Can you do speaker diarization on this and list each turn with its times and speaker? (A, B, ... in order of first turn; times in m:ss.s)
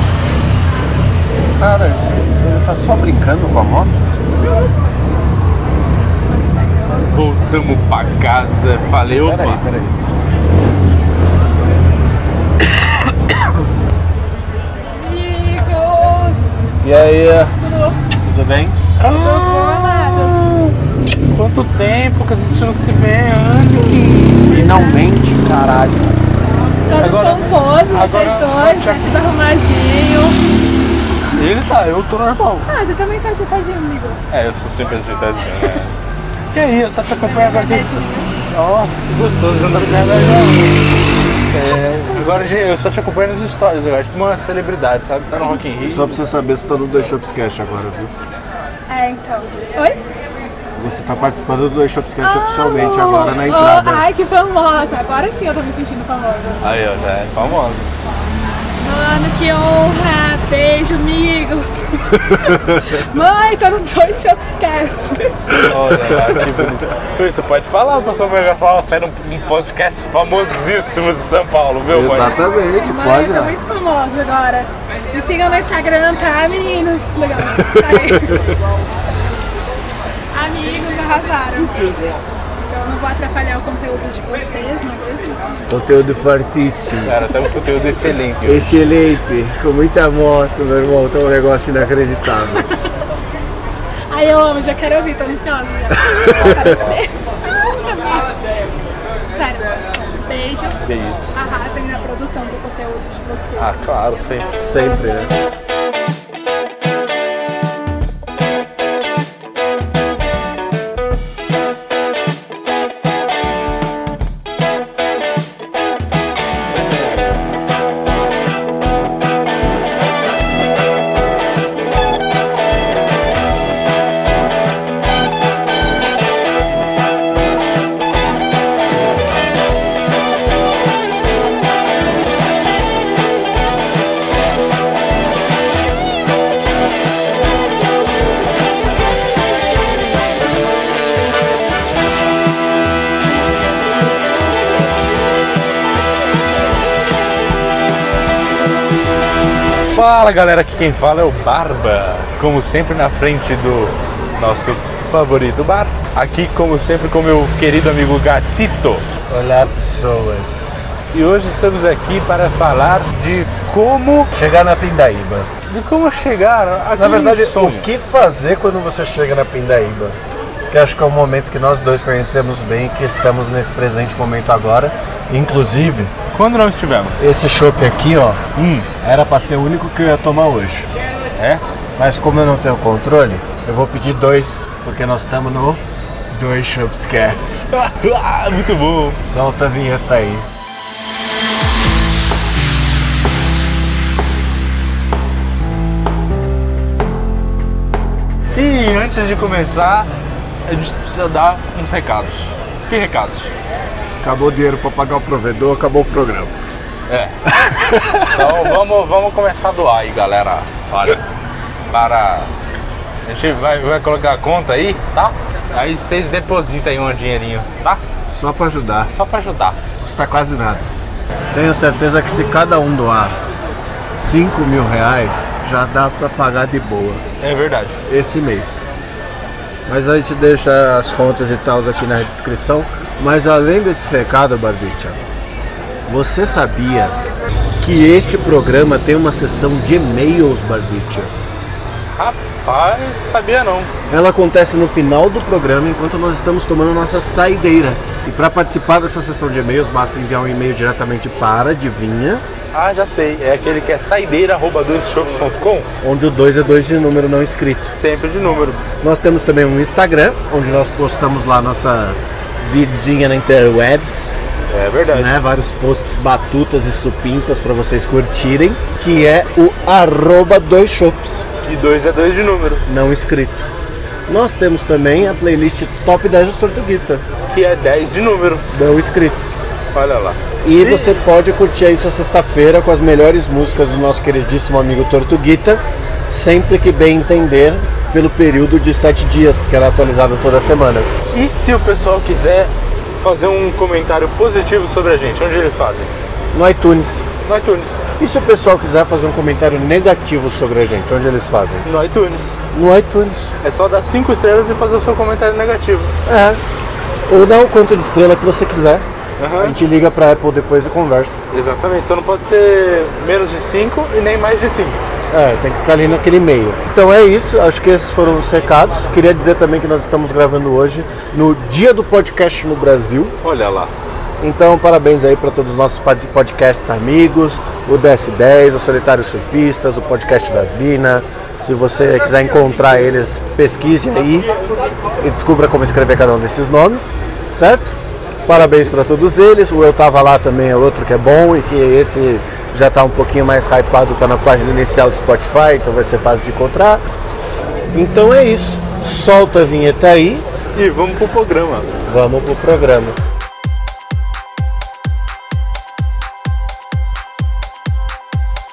0:01.6-0:04.0 A
0:07.1-0:09.6 B
0:09.2-0:10.0 A
0:14.8-0:16.4 C
0:16.8-0:17.6 A
0:17.6-0:18.0 C
0:18.2-0:20.7 A
0:19.0-0:20.5 C
0:21.3-0:24.6 B
0:24.5-0:26.1 A
0:24.5-0:25.0 C
0:26.9-0:30.4 C
0:27.0-0:29.0 B
0:31.3-0:32.7 B
0:32.7-0:34.2 C
0:34.3-0:35.9 B
0:36.5-0:40.7 B
0:37.2-0:38.3 C
0:41.5-0:46.2 B
0:45.8-0:48.1 A
0:48.9-0:50.0 C
0:50.8-0:54.0 A
0:52.2-0:56.6 C
0:56.6-0:57.9 B
0:58.8-1:05.4 C
1:02.3-1:02.8 A
1:05.5-1:06.6 A
1:05.6-1:12.4 B
1:11.9-1:13.6 A
1:12.5-1:18.6 C
1:17.6-1:18.5 A
1:20.3-1:22.0 C
1:22.6-1:25.6 C
1:25.7-1:27.2 A
1:27.0-1:28.7 B
1:28.4-1:32.6 A
1:34.1-1:37.1 C
1:35.9-1:36.8 A
1:36.3-1:36.9 B
1:37.6-1:38.3 C
1:39.3-1:40.8 C
1:40.8-1:41.5 B
1:41.3-1:43.8 C
1:43.6-1:44.6 B
1:44.6-1:45.3 A
2:29.9-2:39.0 B
2:39.3-2:41.0 A
2:41.1-2:44.3 B
2:44.3-2:45.5 A
2:45.7-2:47.9 B
2:47.0-2:50.2 A
2:50.7-2:56.1 A
2:56.3-2:57.2 B
2:57.2-2:58.4 A
2:58.5-2:58.9 B
2:59.0-3:00.9 A
3:01.4-3:01.6 B
3:02.0-3:07.7 A
3:07.7-3:09.2 B
3:09.2-3:10.5 A
3:18.5-3:20.1 B
3:20.6-3:23.5 B
3:24.2-3:26.5 A
3:27.1-3:27.4 B
3:27.5-3:28.7 A
3:28.3-3:31.2 B
3:31.9-3:32.5 B
3:33.2-3:38.0 B
3:38.3-3:39.1 A
3:39.1-3:39.8 B
3:40.0-3:40.9 A
3:41.5-3:43.4 A
3:44.2-3:47.2 A
3:47.4-3:48.0 B
3:48.1-3:48.8 A
3:49.9-3:55.2 A
3:56.1-3:57.2 A
3:57.8-4:01.3 A
4:02.1-4:03.9 B
4:04.1-4:12.4 A
4:12.7-4:15.9 B
4:16.0-4:17.9 A
4:17.9-4:18.8 B
4:19.0-4:24.3 A
4:24.7-4:25.4 B
4:25.1-4:31.4 A
4:31.6-4:32.8 B
4:32.8-4:33.7 A
4:34.3-4:37.2 A
4:37.5-4:38.6 B
4:38.7-4:39.5 A
4:39.9-4:41.1 B
4:40.6-4:51.1 A
4:51.3-4:56.1 B
4:56.5-4:57.2 A
4:57.4-4:58.0 B
4:58.2-5:01.8 A
5:01.8-5:02.6 B
5:02.7-5:03.5 A
5:03.6-5:06.1 B
5:06.2-5:06.6 A
5:07.3-5:09.0 A
5:09.4-5:09.8 B
5:09.6-5:11.4 A
5:11.5-5:15.0 B
5:15.3-5:23.3 A
5:23.4-5:23.9 B
5:24.4-5:34.5 A
5:35.2-5:47.0 A
5:47.9-5:50.4 A
5:50.8-5:51.9 B
5:52.0-5:53.2 A